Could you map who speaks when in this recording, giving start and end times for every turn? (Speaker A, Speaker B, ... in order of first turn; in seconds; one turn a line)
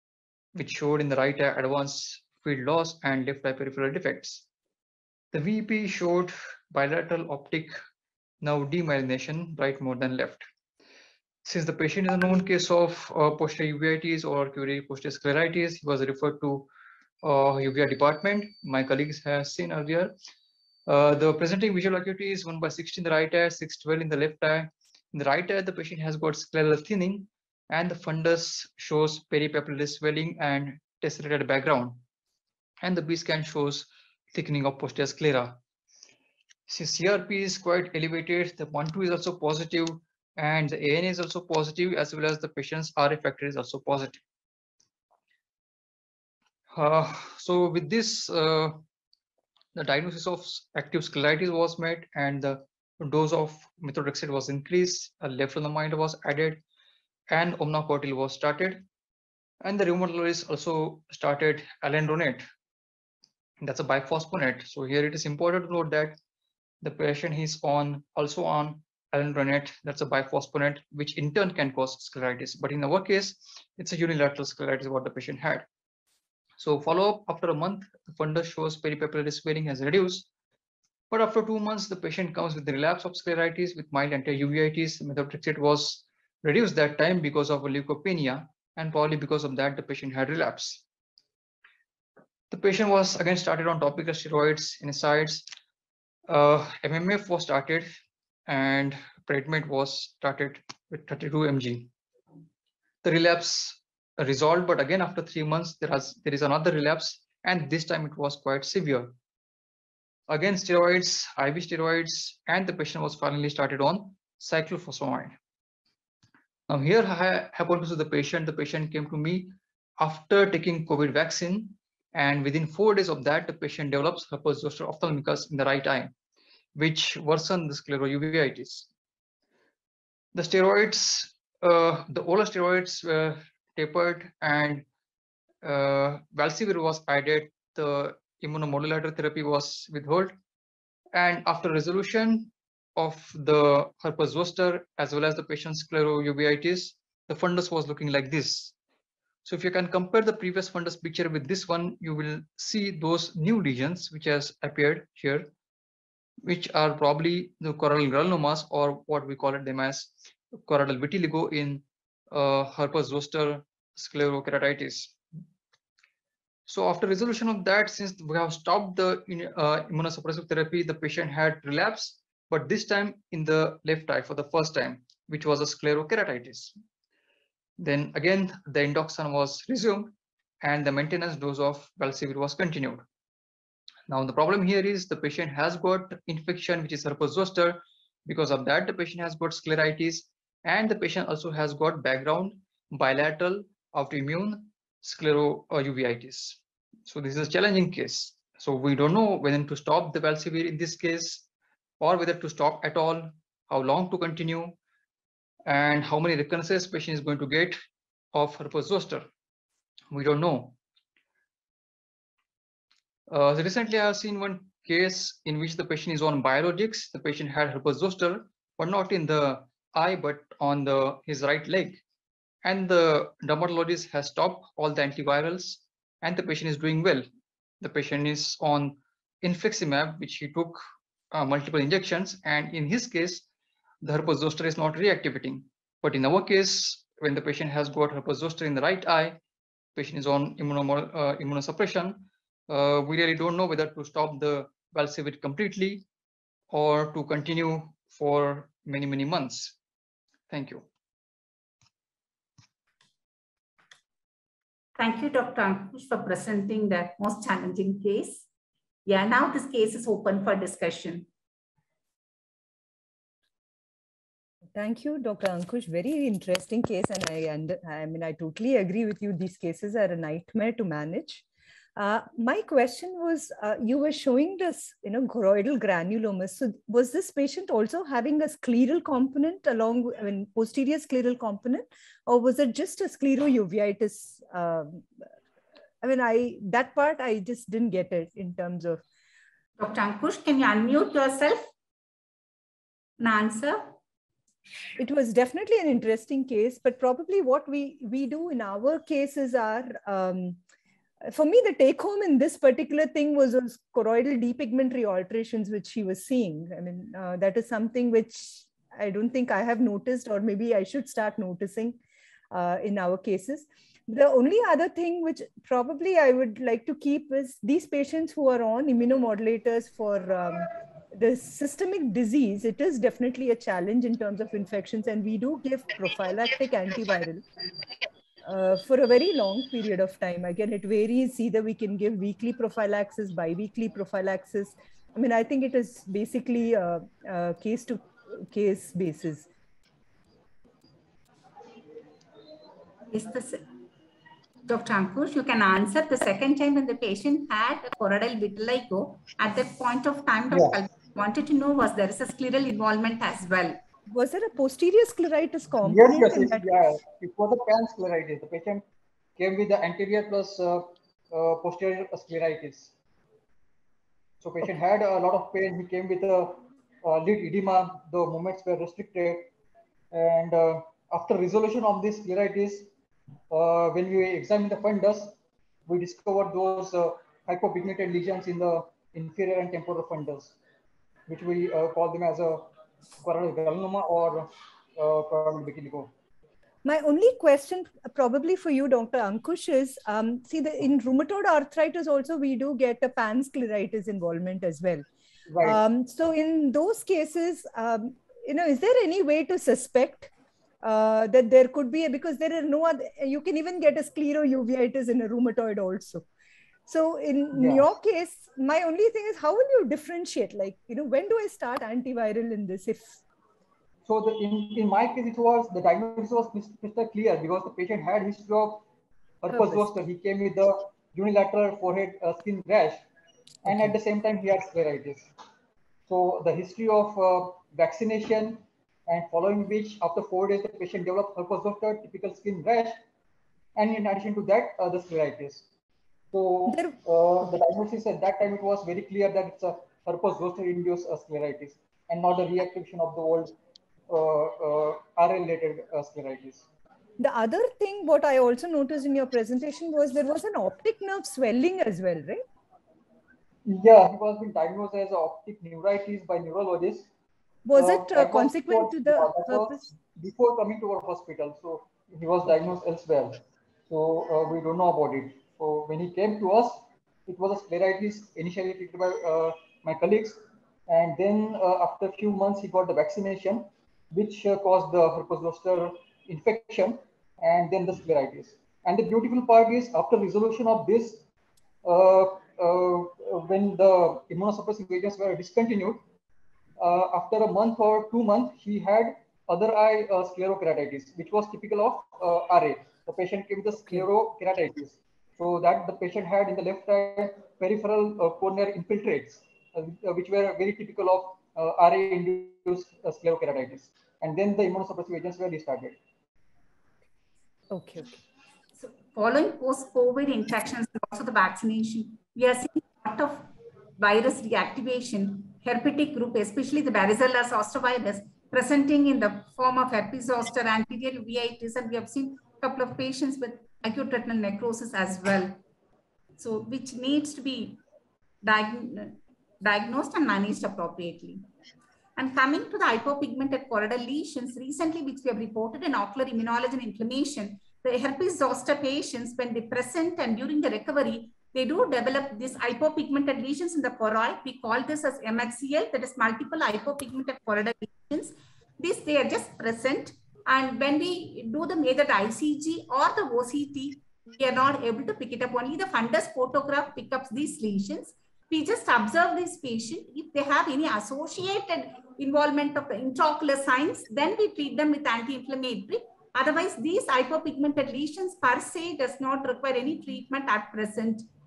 Speaker A: 0.6-4.5
Speaker A: 5.3-7.8
Speaker A: 8.4-10.5
Speaker A: 11.4-16.7
Speaker A: 17.2-20.1
Speaker A: 20.9-32.0
Speaker A: 32.8-35.6
Speaker A: 36.7-44.2
Speaker A: 46.7-48.8
Speaker A: 49.8-56.6
Speaker A: 57.3-58.8
Speaker A: 59.6-62.5
Speaker A: 63.6-66.2
Speaker A: 66.8-75.7
Speaker A: 76.6-80.3
Speaker A: 81.1-90.8
Speaker A: 92.5-95.5
Speaker A: 96.3-97.9
Speaker A: 98.5-101.9
Speaker A: 103.0-109.2
Speaker A: 110.3-115.3
Speaker A: 116.7-126.1
Speaker A: 126.8-128.9
Speaker A: 130.3-134.9
Speaker A: 135.6-140.3
Speaker A: 141.1-148.8
Speaker A: 149.4-155.5
Speaker A: 156.4-165.2
Speaker A: 166.7-176.8
Speaker A: 177.8-183.1
Speaker A: 184.1-201.5
Speaker A: 202.0-204.8
Speaker A: 205.7-207.8
Speaker A: 208.3-209.3
Speaker A: 210.1-210.8
Speaker A: 213.3-222.0
Speaker A: 222.6-227.3
Speaker A: 227.8-233.4
Speaker A: 234.0-239.4
Speaker A: 239.9-246.1
Speaker A: 246.7-249.8
Speaker A: 250.5-250.8
Speaker B: 255.0-258.4
Speaker B: 259.1-261.3
Speaker C: 264.8-271.4
Speaker C: 271.9-285.1
Speaker C: 286.0-289.0
Speaker B: 289.8-291.7
Speaker B: 293.2-293.9
Speaker C: 295.0-300.6
Speaker C: 301.3-312.0
Speaker C: 312.5-327.4
Speaker C: 328.4-339.5
Speaker B: 343.1-343.6
Speaker B: 344.7-353.8
Speaker D: 350.5-350.8
Speaker C: 354.1-356.7
Speaker D: 355.8-358.8
Speaker D: 359.4-362.9
Speaker D: 364.4-369.5
Speaker D: 370.1-372.9
Speaker D: 373.5-380.6
Speaker D: 381.3-382.7
Speaker D: 383.2-386.1
Speaker C: 386.9-395.1
Speaker D: 395.5-395.8
Speaker C: 395.6-400.3
Speaker C: 400.8-406.3
Speaker C: 406.9-413.2
Speaker D: 407.5-407.9
Speaker D: 414.1-418.9
Speaker D: 419.4-423.1
Speaker C: 419.5-419.8
Speaker D: 423.6-425.3
Speaker C: 423.7-423.9
Speaker D: 426.1-433.0
Speaker D: 433.8-435.7
Speaker D: 436.3-443.6
Speaker C: 436.7-437.0
Speaker D: 444.1-446.6
Speaker C: 447.2-452.4
Speaker D: 453.6-457.1
Speaker C: 457.6-459.9
Speaker D: 457.8-481.2
Speaker D: 481.8-486.0
Speaker D: 486.8-506.0
Speaker C: 507.7-508.2
Speaker B: 508.8-525.6
Speaker B: 526.4-527.8
Speaker B: 528.4-531.4
Speaker B: 532.2-571.3